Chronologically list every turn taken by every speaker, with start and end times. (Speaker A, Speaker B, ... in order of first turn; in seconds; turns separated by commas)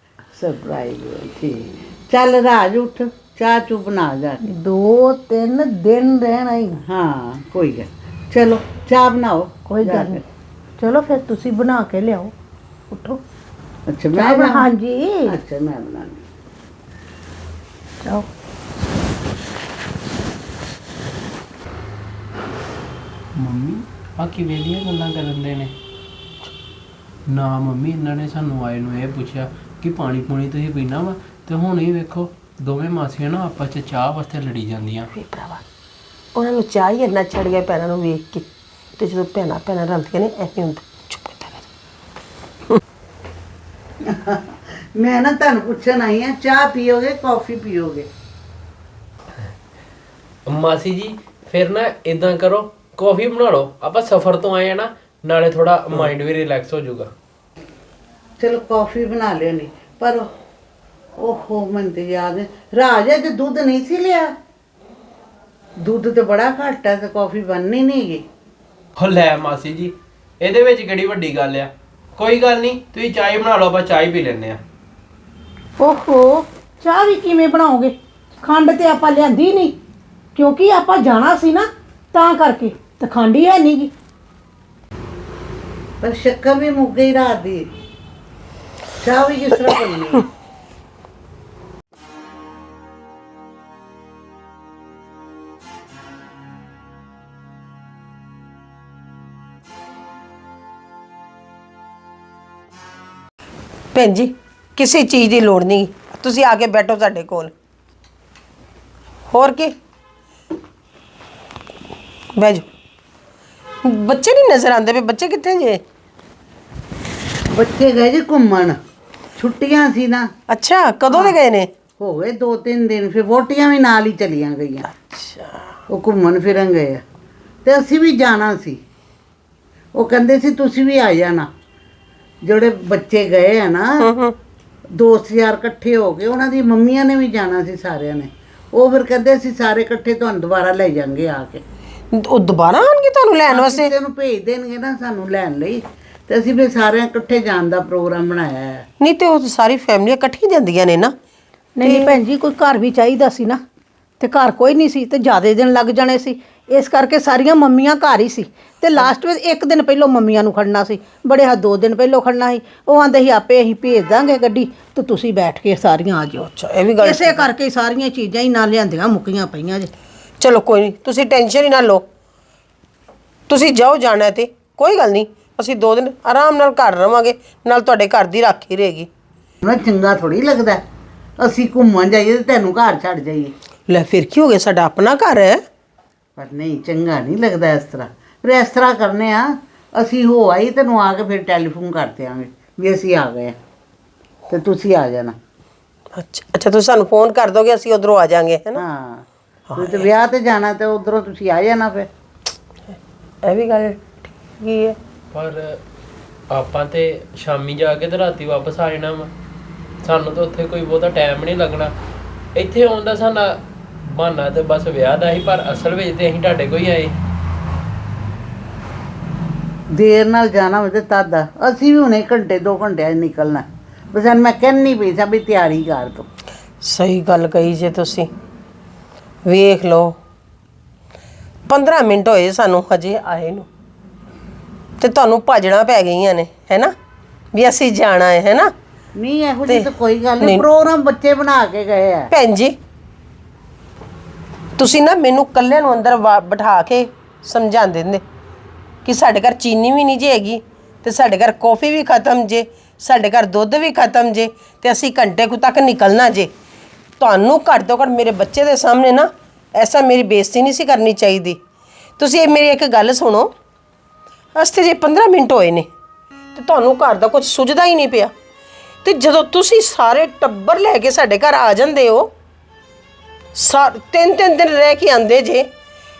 Speaker A: 0.3-4.4, Speaker B: 4.4-6.8, Speaker A: 6.8-10.2, Speaker B: 9.7-10.2, Speaker B: 10.8-12.3, Speaker B: 12.9-13.2, Speaker A: 13.9-14.7, Speaker B: 14.1-15.3, Speaker A: 15.2-16.2, Speaker C: 23.3-25.7, Speaker C: 27.3-35.1, Speaker D: 35.1-35.6, Speaker D: 36.3-38.5, Speaker D: 39.0-41.7, Speaker A: 44.0-48.1, Speaker C: 50.5-57.1, Speaker A: 58.4-60.3, Speaker A: 61.2-64.3, Speaker A: 65.8-68.2, Speaker C: 69.0-74.6, Speaker B: 75.8-79.7, Speaker B: 80.3-83.9, Speaker A: 86.0-87.7, Speaker A: 89.0-90.3, Speaker D: 103.9-107.5, Speaker D: 109.3-109.7, Speaker D: 112.3-112.6, Speaker D: 113.8-115.8, Speaker A: 117.5-118.8, Speaker A: 119.4-120.3, Speaker D: 120.5-121.7, Speaker A: 122.0-124.9, Speaker D: 124.9-125.6, Speaker A: 125.9-127.0, Speaker A: 127.6-128.8, Speaker A: 129.9-131.5, Speaker A: 132.4-134.1, Speaker D: 134.0-134.3, Speaker A: 134.9-141.6, Speaker D: 142.1-143.9, Speaker A: 143.5-148.8, Speaker D: 149.0-151.1, Speaker B: 151.8-153.6, Speaker D: 151.8-152.1, Speaker B: 154.2-169.9, Speaker D: 166.6-167.5, Speaker D: 170.4-172.0, Speaker D: 173.5-179.1, Speaker A: 179.6-180.8, Speaker A: 181.4-183.5, Speaker D: 183.9-185.6, Speaker A: 186.4-193.6, Speaker A: 194.5-195.3, Speaker D: 196.1-198.8, Speaker A: 198.7-202.1, Speaker D: 199.7-200.1, Speaker D: 202.9-204.9, Speaker C: 205.3-205.8, Speaker C: 206.5-209.3, Speaker C: 210.0-211.9, Speaker C: 212.5-217.2, Speaker A: 219.9-226.3, Speaker D: 226.8-228.3, Speaker D: 229.4-230.1, Speaker D: 231.7-233.7, Speaker D: 235.0-236.9, Speaker D: 237.5-238.7, Speaker A: 239.2-242.3, Speaker D: 242.3-242.7, Speaker D: 244.8-248.2, Speaker D: 249.0-256.5, Speaker D: 257.2-261.6, Speaker D: 262.2-263.5, Speaker D: 264.5-265.9, Speaker D: 266.5-268.3, Speaker D: 269.0-272.3, Speaker D: 273.5-275.7